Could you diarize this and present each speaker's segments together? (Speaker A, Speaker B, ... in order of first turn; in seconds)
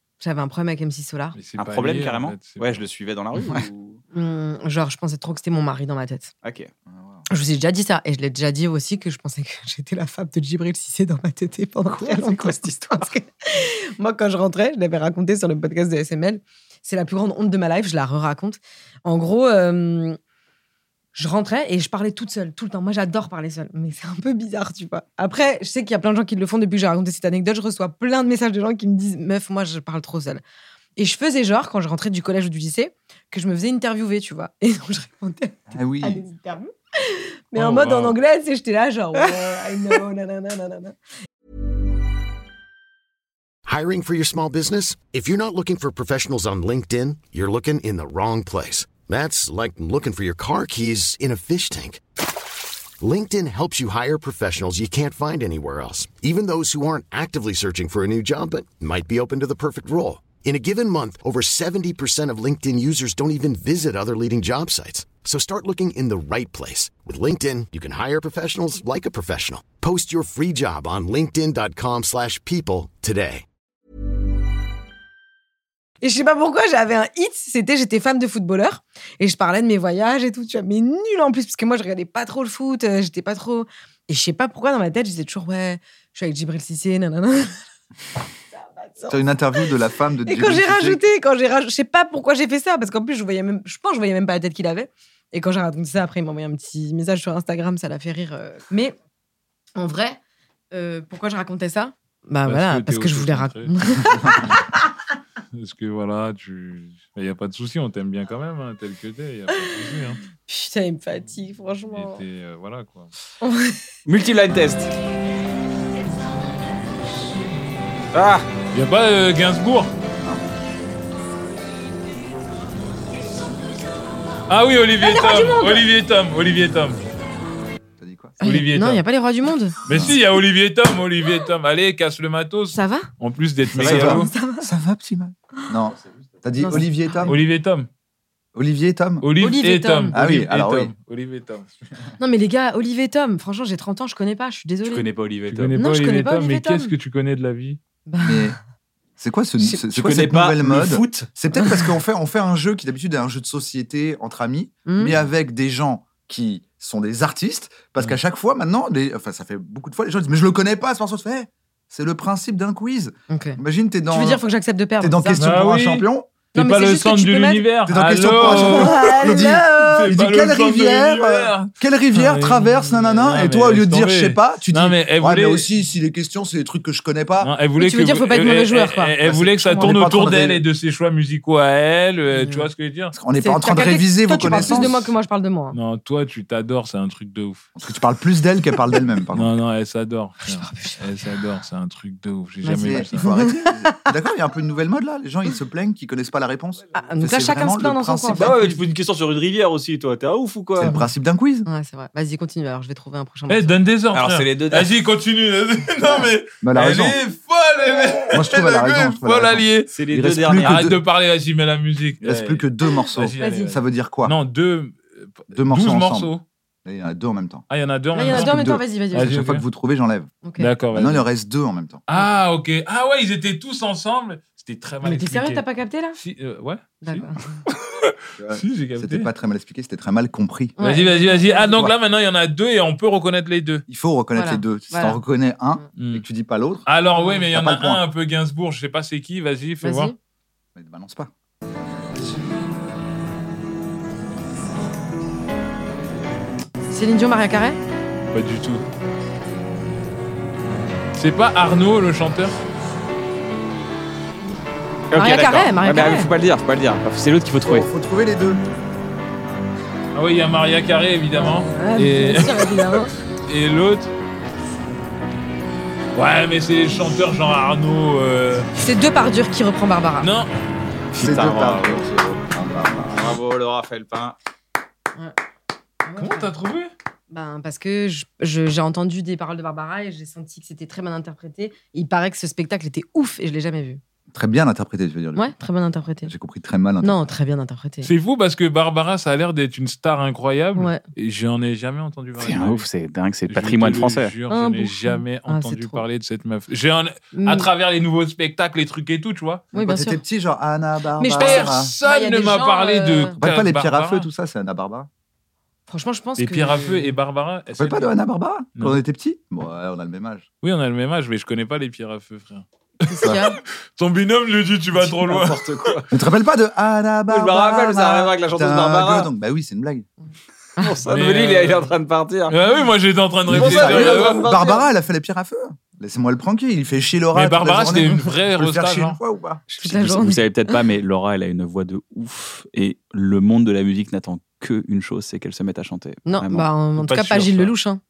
Speaker A: 0.2-1.4, 4.1-6.3, 7.3-20.2, 21.1-30.4, 31.0-40.9, 76.0-87.5, 88.6-89.7, 90.2-98.9, 99.8-100.2, 100.7-104.5, 109.5-109.8, 110.4-112.2, 113.4-113.8, 125.0-125.8, 128.4-129.8, 132.7-133.1, 133.9-134.7, 136.6-137.3, 139.4-140.2, 142.2-145.1, 145.7-146.9, 148.1-148.5, 151.5-151.8, 154.8-155.1, 163.3-165.5, 166.5-167.7, 168.4-170.1, 177.8-180.3, 182.3-182.7, 183.4-185.8, 190.4-191.3, 192.6-194.0, 196.9-198.6, 201.7-203.8, 213.4-213.7, 218.1-219.4, 220.4-220.7, 225.0-226.2, 227.0-227.6, 230.8-231.8, 234.3-235.2, 237.2-237.4, 239.8-240.1, 246.9-247.8, 255.2-256.3, 261.3-263.1, 268.8-270.3, 276.0-276.5, 277.3-284.0, 285.4-286.3, 287.0-288.1, 290.8-291.0, 294.5-296.0, 297.3-297.7, 299.7-300.2, 301.2-303.4, 305.9-307.1, 313.1-313.6, 329.8-330.4, 336.2-338.0
Speaker B: 1.3-2.8, 37.5-38.2, 102.5-104.6, 105.5-110.2, 111.9-113.1, 118.7-119.9, 124.5-127.0, 128.4-129.0, 129.8-134.3, 137.2-137.9, 139.2-141.7, 145.5-147.8, 165.4-175.7, 177.4-183.1, 184.4-184.9, 185.7-187.7, 189.3-193.3, 203.5-209.9, 210.5-216.4, 217.7-219.6, 220.6-221.3, 222.1-225.6, 226.2-229.3, 230.8-233.8, 236.0-236.2, 236.8-240.1, 248.3-248.8, 251.2-252.6, 260.1-264.1, 266.1-268.7, 270.2-270.5, 276.2-276.9, 288.0-292.8, 293.5-299.7, 301.4-304.3, 306.4-308.1, 310.6-315.9, 321.1-321.9, 322.5-324.5, 327.3-329.2, 337.0-337.7
Speaker C: 1.6-4.0, 6.4-6.7, 11.9-13.1, 114.0-114.9, 118.1-118.5, 133.8-134.2, 144.8-145.8, 149.9-151.3, 198.3-201.0, 204.1-204.9, 209.9-210.9, 255.1-257.9, 271.1-272.1, 273.1-274.4, 292.4-294.3, 314.9-316.1, 317.3-319.3, 320.8-322.5, 323.5-324.8, 329.7-336.7
Speaker D: 6.9-7.2, 35.7-36.2, 89.1-91.0, 128.0-128.3, 129.9-130.2, 133.8-137.4, 138.5-139.3, 140.1-140.9, 148.2-148.6, 149.2-164.4, 165.0-166.3, 167.8-177.5, 179.2-180.6, 183.1-185.1, 187.8-189.6, 192.8-198.6, 200.8-201.7, 206.6-207.2, 208.3-211.0, 212.2-214.3, 215.5-216.3, 216.8-217.6, 218.2-220.3, 220.9-222.0, 228.4-230.8, 231.6-231.9, 233.9-236.9, 237.5-238.0, 240.7-241.3, 257.6-258.6, 271.1-273.3, 284.3-285.5, 286.2-287.2, 299.7-301.9, 303.4-305.1, 307.7-310.4, 316.1-320.1, 323.5-329.6
Speaker E: 43.6-52.0, 53.0-73.4